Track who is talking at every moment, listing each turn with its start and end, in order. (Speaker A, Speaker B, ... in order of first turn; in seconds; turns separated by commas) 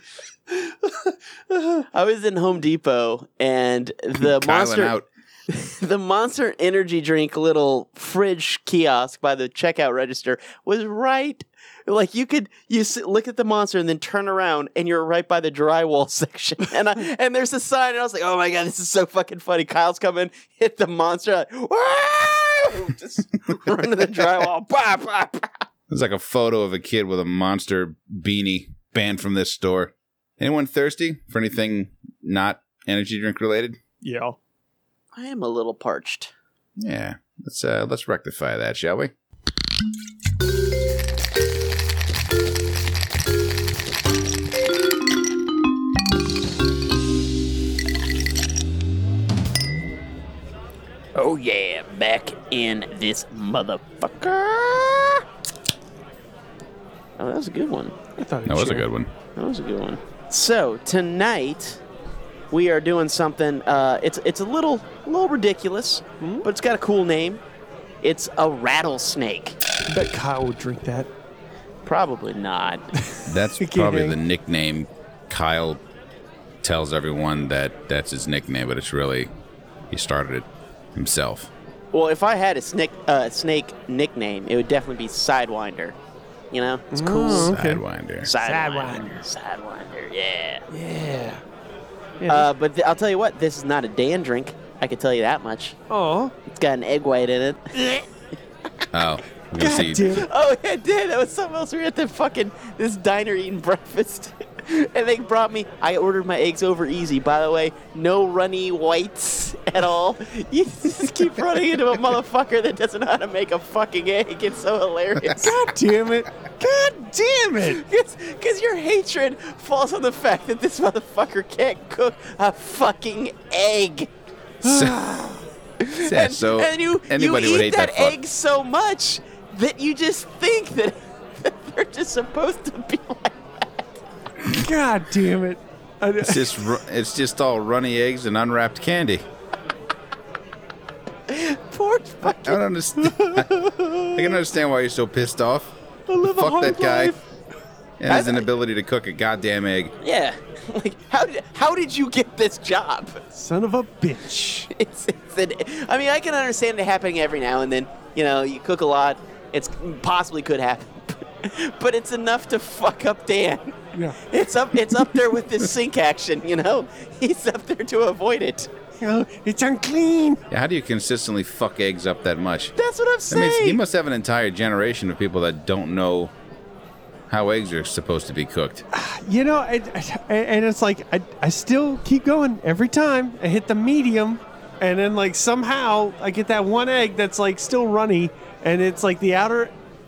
Speaker A: 0.5-1.8, Speaker B: 1.9-4.9, Speaker C: 4.2-5.1, Speaker B: 5.5-25.6, Speaker C: 25.9-33.8, Speaker A: 34.0-34.4, Speaker B: 35.1-36.3, Speaker C: 36.8-39.1, Speaker B: 51.1-55.2, Speaker B: 57.2-58.0, Speaker A: 58.1-58.9, Speaker C: 58.4-59.1, Speaker B: 59.4-61.8, Speaker B: 62.5-67.4, Speaker A: 66.2-66.5, Speaker B: 68.0-69.6, Speaker A: 69.9-71.1, Speaker B: 71.8-72.8, Speaker A: 73.1-74.2, Speaker C: 73.3-75.8, Speaker C: 76.6-79.3, Speaker C: 79.9-81.5, Speaker B: 81.9-86.0, Speaker B: 86.5-87.5, Speaker A: 86.9-87.8, Speaker C: 87.3-88.3, Speaker B: 88.2-90.6, Speaker A: 88.4-89.2, Speaker A: 90.7-91.4, Speaker A: 92.2-92.5, Speaker B: 92.3-95.8, Speaker A: 95.9-96.3, Speaker B: 96.5-97.8, Speaker A: 97.7-98.0, Speaker C: 98.9-100.2, Speaker A: 99.6-100.3, Speaker B: 100.0-115.5, Speaker A: 115.4-117.8, Speaker B: 117.7-124.1, Speaker C: 124.6-125.0, Speaker A: 124.6-125.4, Speaker B: 125.8-133.6, Speaker C: 126.0-128.2, Speaker A: 134.5-136.7, Speaker C: 136.2-139.2, Speaker B: 141.3-142.6, Speaker C: 142.2-143.5, Speaker A: 143.0-144.4, Speaker C: 144.1-147.2, Speaker A: 146.1-147.2, Speaker C: 148.0-149.9, Speaker B: 148.1-148.4, Speaker B: 150.0-153.2, Speaker A: 153.3-154.7, Speaker B: 154.7-168.7, Speaker A: 169.0-170.4, Speaker C: 170.5-172.8, Speaker B: 172.8-173.8, Speaker C: 173.3-176.3, Speaker C: 177.3-178.8, Speaker A: 178.9-189.7